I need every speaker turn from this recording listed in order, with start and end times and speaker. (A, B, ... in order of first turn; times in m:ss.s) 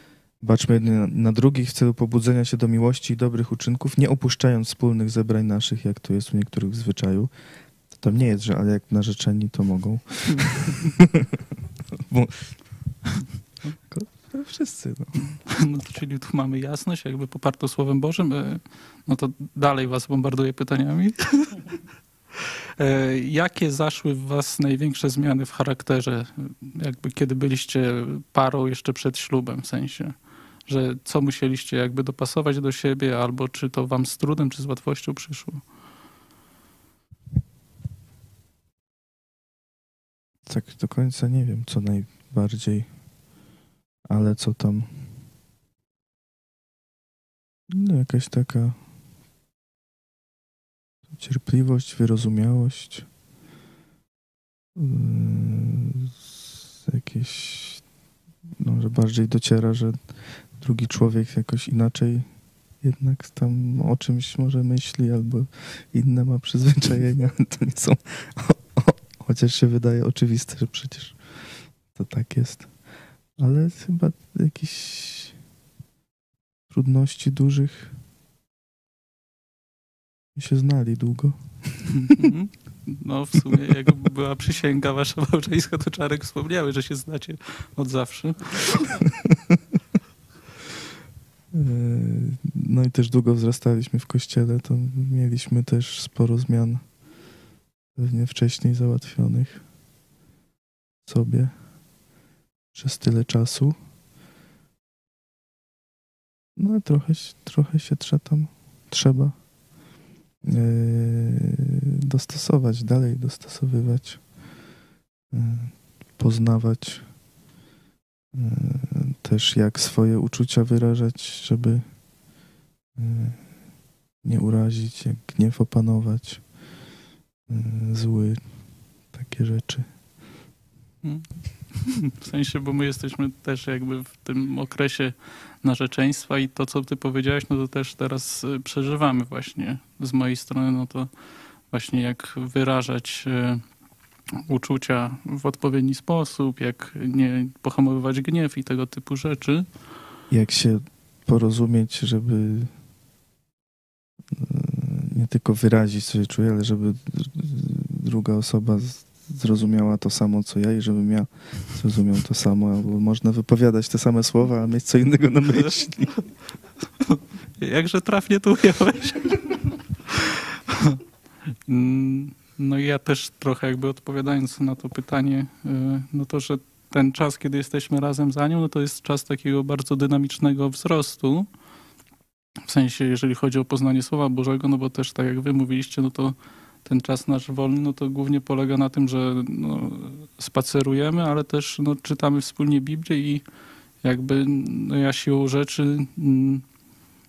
0:00.4-0:07.3 A
0:07.9-0:11.1 A
0:12.0-0:12.6 A
0:13.9-0:15.4 A
0:15.4-0:21.7 B
0:22.8-0:35.7 B
0:40.5-0:42.9 A
0:44.1-0:44.9 A
0:47.7-0:48.8 A
0:51.1-0:53.1 A
0:54.8-0:56.2 A
0:56.8-0:57.9 A
0:58.6-1:12.8 A
1:13.4-1:15.4 A
1:16.7-1:18.0 A
1:20.4-1:22.1 A
1:22.1-1:29.1 B
1:31.5-1:37.0 A
1:38.0-1:39.7 A
1:41.0-1:41.6 A
1:42.7-1:43.8 A
1:46.6-1:49.5 A
1:50.4-1:54.3 A
1:55.3-1:57.1 A
1:58.3-2:02.0 A
2:03.0-2:03.6 A
2:04.2-2:06.5 A
2:07.5-2:08.4 A
2:09.1-2:09.9 A
2:11.0-2:21.1 B
2:21.7-2:23.6 B
2:24.5-2:29.7 B
2:30.3-2:32.7 A
2:34.3-2:46.1 A
2:47.1-2:50.2 B
2:50.7-2:51.0 B
2:51.7-3:01.5 B
3:02.7-3:13.4 B
3:14.0-3:16.6 B